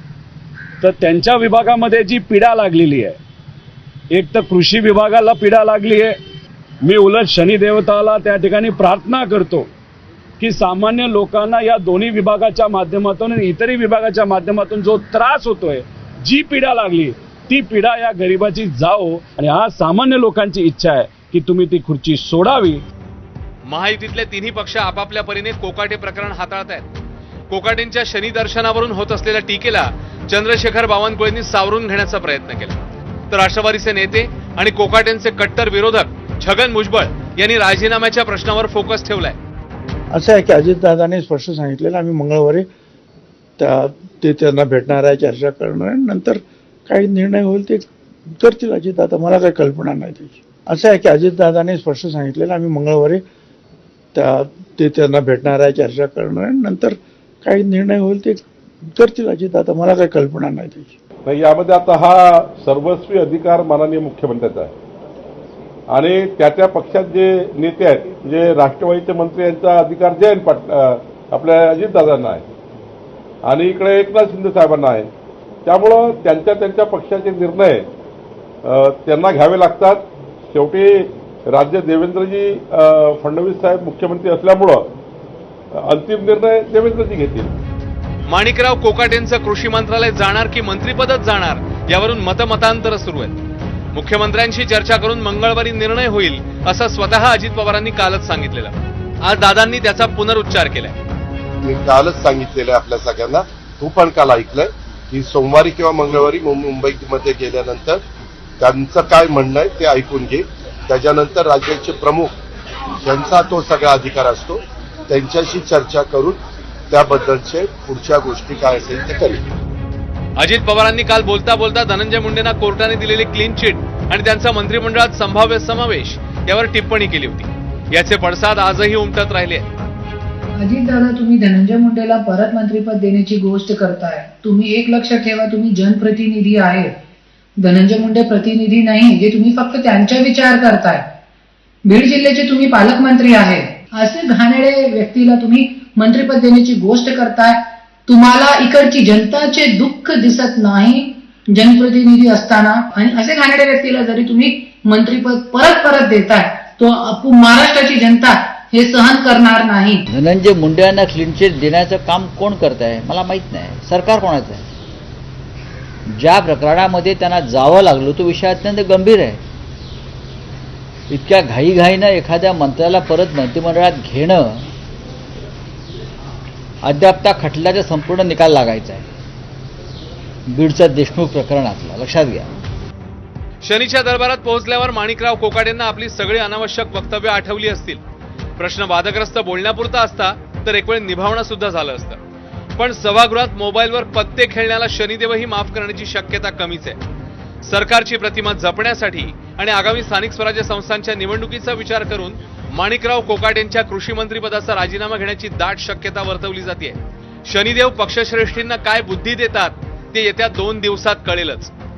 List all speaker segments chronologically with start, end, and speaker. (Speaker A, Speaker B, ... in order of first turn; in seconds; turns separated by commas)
Speaker A: 0.8-3.2, Speaker A: 4.1-6.2, Speaker A: 6.8-9.7, Speaker A: 10.4-22.8, Speaker B: 23.7-26.9, Speaker B: 27.5-32.8, Speaker B: 33.3-39.4, Speaker C: 40.1-42.7, Speaker C: 43.6-47.9, Speaker C: 48.4-53.2, Speaker C: 54.1-58.4, Speaker C: 59.0-60.9, Speaker D: 61.2-64.7, Speaker D: 65.9-72.5, Speaker D: 73.5-75.1, Speaker D: 75.7-77.9, Speaker D: 78.6-84.9, Speaker D: 85.7-87.5, Speaker B: 88.3-93.3, Speaker B: 93.9-101.0, Speaker E: 101.6-108.0, Speaker E: 108.6-112.4, Speaker E: 113.0-119.4, Speaker B: 120.4-129.7, Speaker F: 130.6-136.9, Speaker F: 137.6-141.1, Speaker F: 141.8-160.0, Speaker G: 160.1-164.7, Speaker G: 166.1-169.4, Speaker G: 171.1-174.7, Speaker G: 176.8-179.1, Speaker G: 180.5-182.5, Speaker B: 183.6-188.0, Speaker B: 188.6-192.2, Speaker B: 192.8-197.0, Speaker B: 197.6-211.7